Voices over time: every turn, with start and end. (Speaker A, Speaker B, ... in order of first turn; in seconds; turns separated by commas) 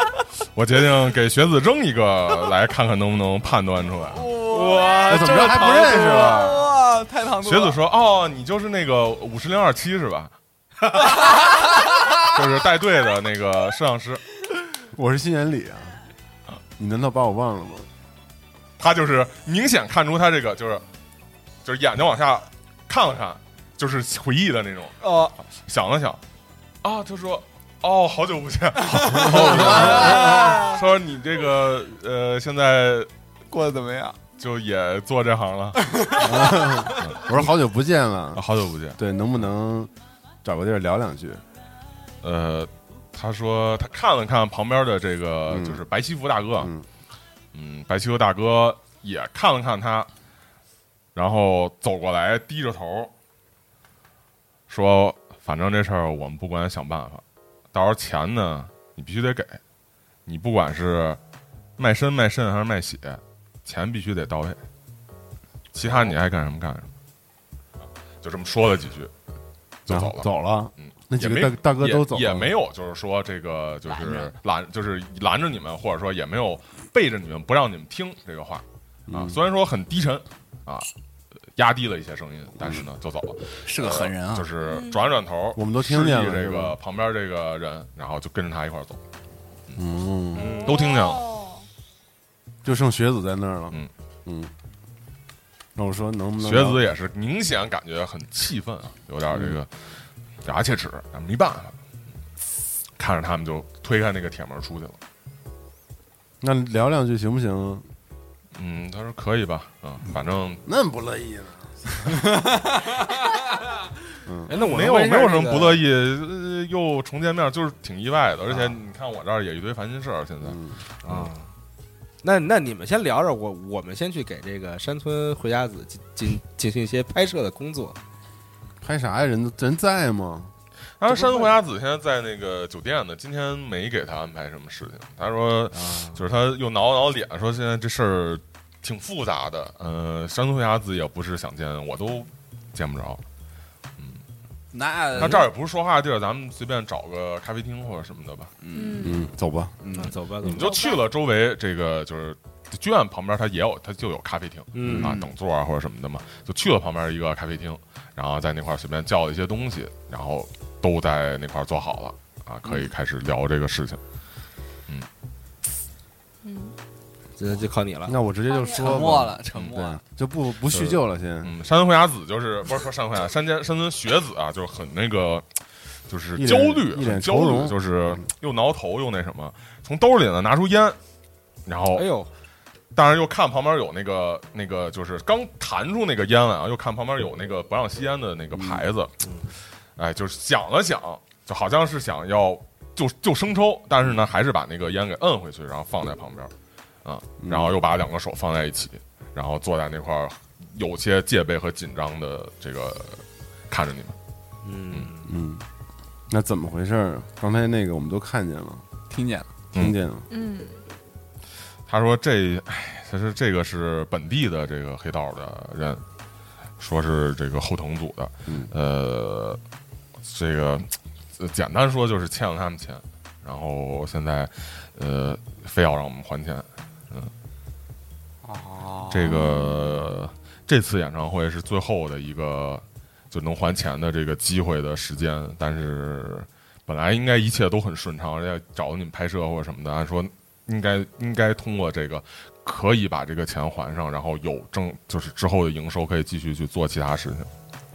Speaker A: 0.6-4.3, Speaker B: 4.1-7.8, Speaker C: 4.5-6.5, Speaker D: 5.1-6.6, Speaker A: 7.4-10.3, Speaker A: 11.0-11.3, Speaker B: 11.0-12.3, Speaker A: 12.3-14.2, Speaker D: 14.9-16.0, Speaker D: 16.8-17.9, Speaker A: 18.8-20.8, Speaker A: 21.6-26.2, Speaker B: 25.0-25.3, Speaker A: 26.8-33.1, Speaker D: 29.1-30.5, Speaker B: 29.5-30.8, Speaker B: 33.5-34.2, Speaker A: 34.4-37.5, Speaker B: 35.8-36.7, Speaker D: 36.2-38.4, Speaker A: 38.3-39.0, Speaker D: 39.0-39.9, Speaker D: 40.4-41.4, Speaker A: 42.2-46.7, Speaker D: 45.5-45.8, Speaker D: 46.6-46.9, Speaker A: 47.5-50.1, Speaker A: 51.1-53.1, Speaker A: 54.7-59.6, Speaker A: 60.3-61.2, Speaker A: 61.8-64.6, Speaker A: 65.7-66.9, Speaker A: 68.2-69.1, Speaker A: 69.9-70.2, Speaker D: 69.9-72.5, Speaker A: 70.8-80.9, Speaker B: 73.9-74.3, Speaker D: 79.1-79.4, Speaker A: 81.6-89.0, Speaker D: 82.6-82.8, Speaker B: 83.7-84.5, Speaker E: 84.7-85.0, Speaker D: 85.5-86.8, Speaker D: 89.8-90.7, Speaker C: 90.3-90.7, Speaker E: 90.6-91.7, Speaker A: 90.6-91.3, Speaker D: 92.6-94.5, Speaker D: 95.8-96.8, Speaker A: 96.4-99.7, Speaker D: 99.3-99.6, Speaker A: 100.4-101.8, Speaker A: 103.0-105.0, Speaker D: 106.4-107.9, Speaker A: 108.5-110.6, Speaker D: 110.7-112.3, Speaker B: 112.1-113.2, Speaker D: 114.3-114.6, Speaker C: 114.5-115.8, Speaker A: 114.5-121.3, Speaker D: 120.4-120.8, Speaker C: 121.0-121.5, Speaker C: 122.2-128.0, Speaker D: 128.8-130.5, Speaker A: 131.0-143.2, Speaker D: 131.2-131.5, Speaker C: 135.7-136.2, Speaker B: 144.7-145.5, Speaker A: 145.2-148.5, Speaker B: 148.6-149.2, Speaker E: 148.7-149.3, Speaker D: 149.0-149.8, Speaker B: 149.8-150.2, Speaker C: 149.9-150.9, Speaker A: 150.4-164.0, Speaker E: 150.4-151.0, Speaker C: 154.7-155.2, Speaker B: 154.8-155.3, Speaker B: 162.7-162.9, Speaker E: 166.4-166.8, Speaker C: 167.4-168.2, Speaker D: 168.1-171.5, Speaker E: 168.5-168.9, Speaker B: 168.7-170.0, Speaker A: 170.7-175.5, Speaker A: 176.1-181.0, Speaker D: 176.3-178.2, Speaker A: 181.7-182.1, Speaker C: 181.9-182.3, Speaker A: 182.9-189.2, Speaker D: 188.6-188.8, Speaker A: 190.0-196.5, Speaker A: 197.1-204.2, Speaker D: 197.4-197.8, Speaker C: 204.6-205.4, Speaker D: 205.3-205.7, Speaker D: 206.3-208.8, Speaker B: 209.1-209.5, Speaker D: 209.8-210.3, Speaker E: 210.3-210.8, Speaker A: 211.9-216.0, Speaker A: 216.8-219.6, Speaker D: 218.5-218.7, Speaker A: 220.2-227.3, Speaker B: 228.4-229.4, Speaker A: 229.1-247.5, Speaker E: 229.3-229.9